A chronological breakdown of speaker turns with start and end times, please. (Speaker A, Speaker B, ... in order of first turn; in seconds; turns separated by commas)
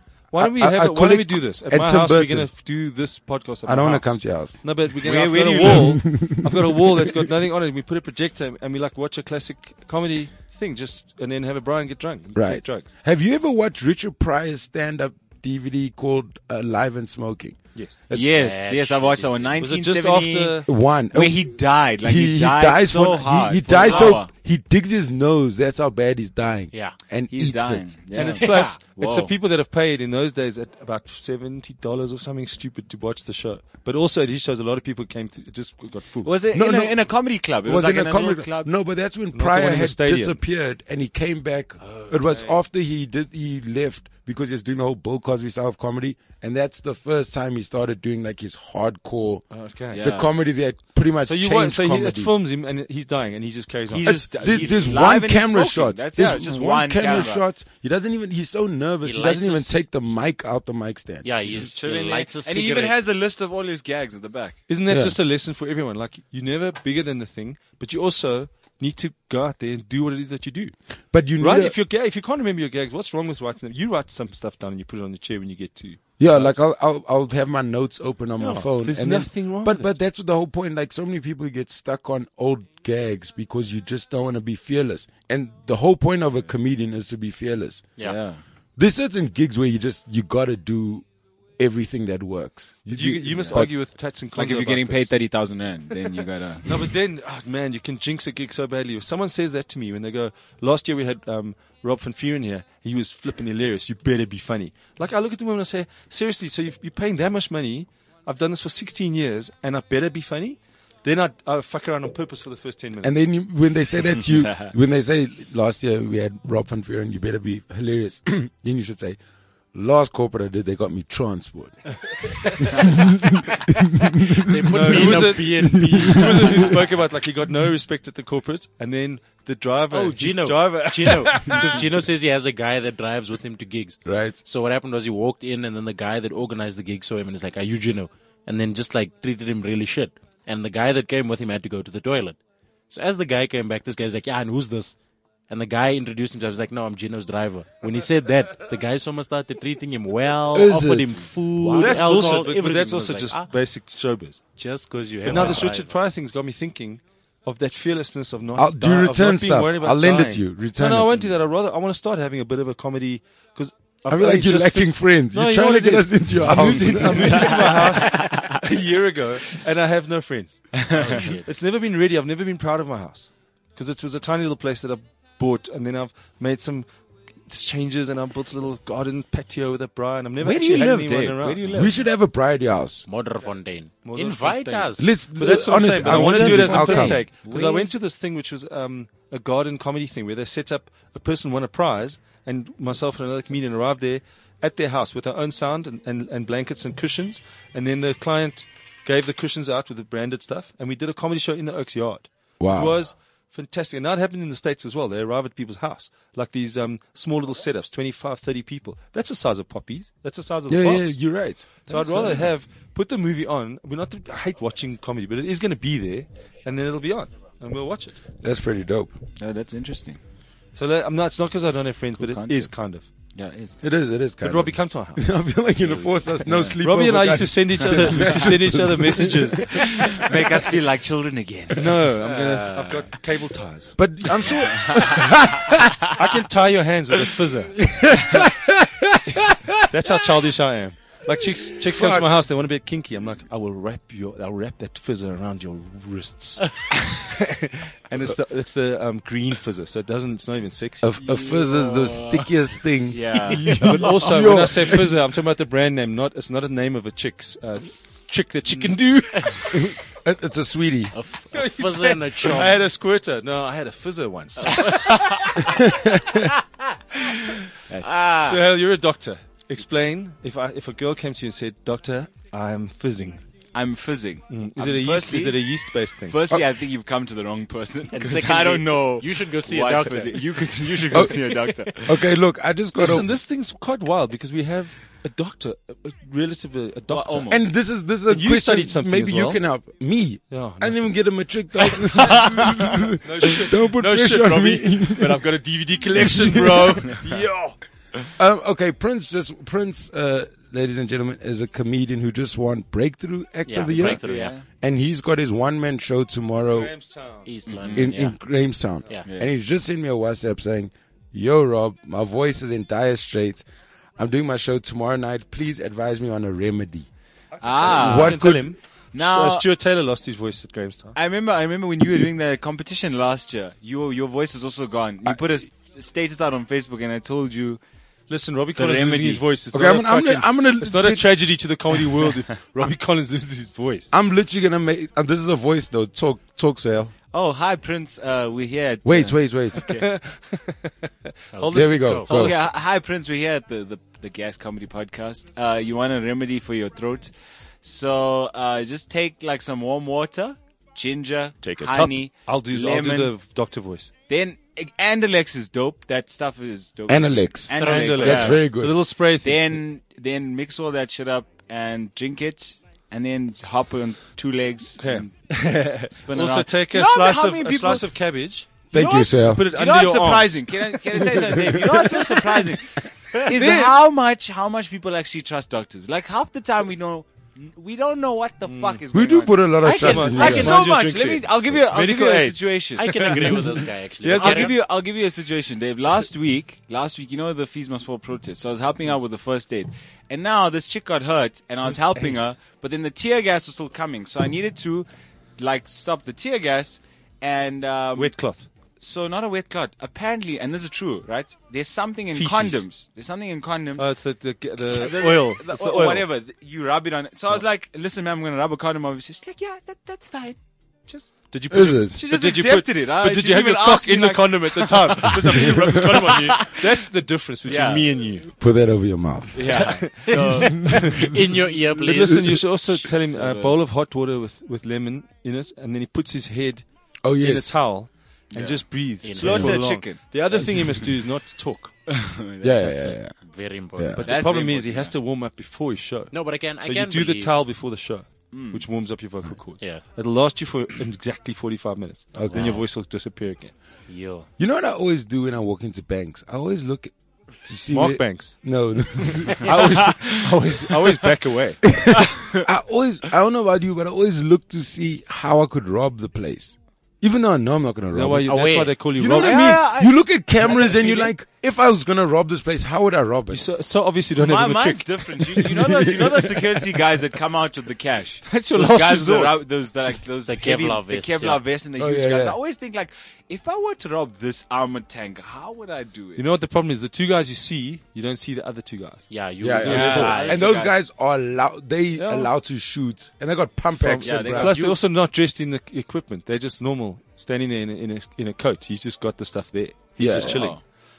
Speaker A: 0.3-12.9, Speaker B: 0.4-2.5, Speaker B: 3.6-7.0, Speaker C: 5.0-6.0, Speaker B: 12.3-18.4, Speaker C: 18.1-24.3, Speaker D: 18.2-19.6, Speaker A: 19.6-20.7, Speaker B: 20.7-27.9, Speaker D: 23.7-24.2, Speaker C: 27.3-29.3, Speaker A: 28.1-36.3, Speaker D: 28.2-28.8, Speaker C: 36.2-38.7, Speaker B: 36.5-37.1, Speaker B: 37.6-52.3, Speaker A: 39.3-40.4, Speaker A: 49.5-50.0, Speaker C: 49.9-50.3, Speaker A: 51.2-54.7, Speaker C: 53.9-57.4, Speaker B: 54.0-61.3, Speaker D: 59.0-59.8, Speaker D: 61.2-63.0, Speaker C: 61.5-64.6, Speaker A: 64.7-70.7, Speaker B: 64.9-65.2, Speaker B: 71.1-71.8, Speaker A: 71.4-76.6, Speaker B: 76.2-87.9, Speaker A: 78.4-79.9, Speaker C: 88.0-88.4, Speaker B: 88.8-91.0, Speaker B: 91.6-93.7, Speaker A: 92.9-95.1, Speaker C: 94.3-96.8, Speaker A: 96.7-113.2, Speaker B: 113.0-119.2, Speaker B: 119.7-126.7, Speaker D: 124.3-126.8, Speaker A: 124.7-131.8, Speaker D: 129.9-142.4, Speaker B: 134.1-134.4, Speaker D: 142.9-144.9, Speaker D: 145.5-153.5, Speaker B: 150.5-151.3, Speaker A: 151.6-154.4, Speaker C: 151.7-152.2, Speaker D: 154.6-155.9, Speaker A: 155.2-176.9, Speaker B: 155.3-155.6, Speaker B: 158.6-161.3, Speaker B: 164.1-167.7, Speaker C: 167.3-168.5, Speaker C: 170.8-171.2, Speaker D: 170.9-171.5, Speaker A: 177.5-181.8, Speaker C: 180.4-182.0, Speaker B: 181.7-183.1, Speaker D: 183.1-185.2, Speaker A: 184.0-211.2, Speaker B: 185.0-187.3, Speaker C: 186.1-187.9, Speaker B: 202.6-203.0, Speaker B: 210.7-212.5, Speaker A: 211.8-218.2, Speaker B: 218.4-219.1, Speaker C: 219.4-220.2, Speaker A: 220.8-223.1, Speaker C: 222.2-222.8, Speaker C: 223.3-223.8, Speaker B: 223.8-230.1, Speaker A: 224.4-225.3, Speaker C: 225.9-226.7, Speaker A: 226.8-229.7, Speaker C: 229.7-232.0, Speaker A: 231.7-234.0, Speaker D: 232.2-233.1, Speaker B: 234.0-236.0, Speaker C: 234.5-235.3, Speaker A: 236.2-237.8, Speaker B: 237.9-240.1, Speaker A: 239.9-251.1, Speaker B: 241.8-242.3, Speaker B: 251.0-255.2, Speaker D: 251.3-252.5, Speaker C: 253.1-253.8, Speaker A: 253.8-259.9, Speaker B: 259.7-261.1, Speaker D: 261.1-262.8, Speaker A: 261.5-265.2, Speaker D: 264.6-265.5, Speaker C: 264.8-265.4, Speaker B: 265.7-266.5, Speaker C: 267.9-268.3, Speaker D: 268.0-268.6, Speaker A: 268.4-273.4, Speaker C: 273.7-275.6, Speaker A: 274.5-276.4, Speaker C: 276.3-282.2, Speaker D: 278.1-281.9, Speaker B: 281.1-281.4, Speaker B: 282.0-283.3, Speaker A: 283.0-287.7, Speaker C: 287.1-287.7, Speaker B: 287.5-295.6, Speaker A: 288.3-289.6, Speaker A: 290.5-291.1, Speaker C: 291.8-293.1, Speaker A: 293.2-297.8, Speaker C: 294.2-297.3, Speaker B: 296.1-297.2, Speaker B: 298.4-304.2, Speaker D: 303.7-304.6, Speaker C: 303.9-304.6, Speaker B: 304.8-306.9, Speaker A: 306.6-307.5, Speaker D: 307.4-308.4, Speaker C: 307.7-308.2, Speaker B: 307.9-313.7, Speaker B: 314.2-317.1, Speaker A: 317.5-321.2, Speaker C: 317.6-318.4, Speaker B: 317.9-318.7, Speaker D: 318.0-318.4, Speaker C: 319.1-319.6, Speaker C: 321.1-327.8, Speaker A: 328.3-334.1, Speaker C: 328.8-329.4, Speaker B: 329.7-331.4, Speaker B: 334.1-337.1, Speaker C: 337.3-340.1, Speaker B: 339.0-339.8, Speaker A: 339.8-342.5, Speaker D: 341.5-342.3, Speaker B: 341.7-342.6, Speaker C: 342.3-353.3, Speaker A: 351.6-354.1, Speaker C: 354.3-358.7, Speaker B: 357.1-359.0, Speaker D: 357.8-358.6, Speaker A: 357.8-359.8, Speaker C: 359.4-365.3, Speaker A: 365.0-372.6, Speaker C: 366.1-368.1, Speaker B: 368.9-369.6, Speaker C: 368.9-383.7, Speaker B: 371.3-371.8, Speaker A: 373.5-374.0, Speaker A: 378.7-379.0, Speaker B: 379.1-380.8, Speaker D: 379.8-380.8, Speaker A: 379.9-384.7, Speaker D: 383.0-384.8, Speaker C: 384.3-398.4, Speaker A: 398.2-398.7, Speaker C: 399.0-404.1, Speaker A: 402.3-402.9, Speaker A: 404.0-406.2, Speaker C: 404.9-411.4, Speaker A: 411.5-418.5, Speaker B: 411.7-412.2, Speaker C: 412.1-416.9, Speaker C: 417.6-418.1, Speaker B: 418.6-419.9, Speaker C: 419.5-421.1, Speaker A: 419.7-421.3, Speaker D: 419.8-422.7, Speaker A: 421.9-431.9, Speaker C: 423.0-423.9, Speaker B: 427.2-427.8, Speaker C: 428.5-431.1, Speaker D: 429.2-429.9, Speaker B: 429.5-429.8, Speaker C: 432.1-433.1, Speaker B: 432.6-433.4, Speaker D: 433.3-434.3, Speaker B: 433.9-434.2, Speaker A: 434.2-443.7, Speaker C: 434.2-435.1, Speaker D: 436.3-437.6, Speaker C: 438.5-438.9, Speaker B: 442.3-442.6, Speaker D: 442.5-442.8, Speaker D: 444.1-444.5, Speaker B: 444.6-449.7, Speaker A: 447.9-448.6, Speaker A: 449.2-451.9, Speaker C: 449.8-450.2, Speaker B: 451.9-463.7, Speaker C: 452.3-452.6, Speaker A: 458.1-459.8, Speaker D: 458.5-459.0, Speaker C: 459.2-461.3, Speaker A: 463.5-465.6, Speaker C: 464.4-476.6, Speaker B: 465.6-466.8, Speaker A: 468.5-469.6, Speaker D: 470.4-471.6, Speaker B: 472.0-472.6, Speaker A: 476.4-480.4, Speaker D: 479.3-480.6, Speaker B: 479.6-484.9, Speaker C: 479.9-481.0, Speaker A: 482.2-482.5, Speaker A: 483.9-490.8, Speaker C: 484.2-485.0, Speaker B: 490.2-490.6, Speaker C: 490.4-490.8